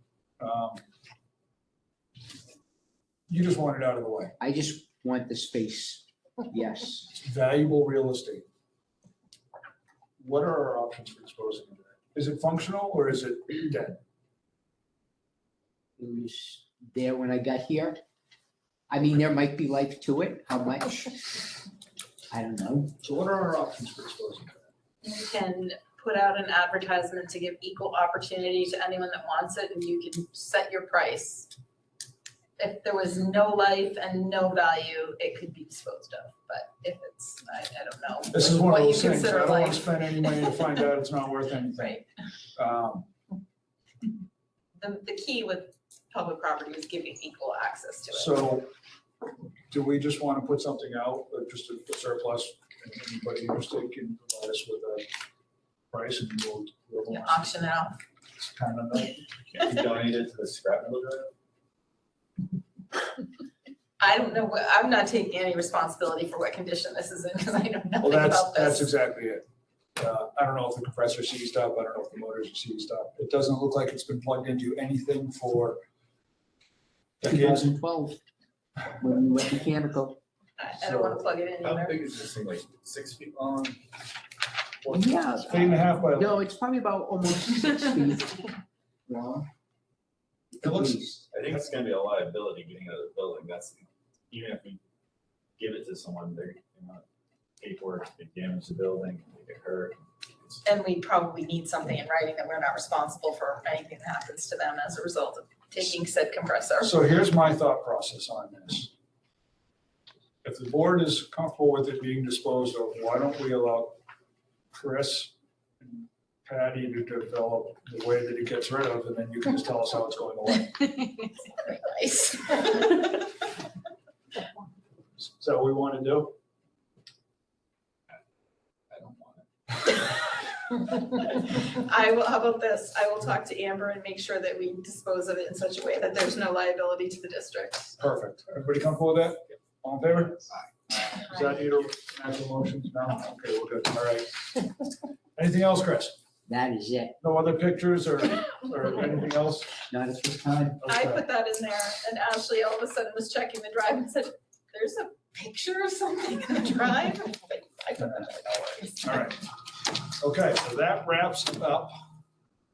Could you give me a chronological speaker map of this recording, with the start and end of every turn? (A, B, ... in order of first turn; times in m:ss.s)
0:00.4-0:00.8 A
0:03.3-0:04.3 A
0:04.4-0:07.1 B
0:07.1-0:08.4 A
0:10.2-0:14.0 A
0:16.0-0:18.0 B
0:18.9-0:21.4 B
0:22.3-0:22.9 B
0:23.0-0:24.7 A
0:25.0-0:31.5 C
0:32.6-0:40.8 C
0:38.3-0:42.0 A
0:41.7-0:42.0 C
0:42.5-0:43.1 A
0:44.8-0:48.4 C
0:48.1-0:48.7 A
0:49.7-0:55.1 A
0:55.9-0:57.6 A
0:57.1-0:58.0 C
0:58.4-0:59.3 A
0:59.5-1:01.3 D
1:04.0-1:08.9 C
1:08.0-1:09.4 A
1:10.0-1:15.8 A
1:17.2-1:17.8 A
1:17.2-1:18.2 B
1:18.9-1:20.2 B
1:20.6-1:22.0 C
1:20.8-1:21.2 A
1:21.6-1:23.8 D
1:24.9-1:28.5 B
1:25.4-1:26.4 A
1:29.1-1:29.5 B
1:30.5-1:31.2 B
1:30.6-1:31.0 A
1:31.3-1:34.8 D
1:35.6-1:37.0 D
1:37.6-1:40.0 D
1:40.6-1:47.0 C
1:46.8-1:48.9 A
1:50.4-1:54.0 A
1:54.7-2:00.8 A
2:01.0-2:03.3 C
2:05.3-2:06.3 A
2:08.9-2:09.4 D
2:10.8-2:18.0 C
2:18.0-2:20.6 A
2:21.1-2:24.6 A
2:25.4-2:26.1 A
2:26.5-2:27.2 B
2:27.2-2:29.7 A
2:29.9-2:30.8 B
2:30.8-2:31.2 A
2:30.8-2:39.2 C
2:39.0-2:39.4 A
2:40.2-2:42.0 A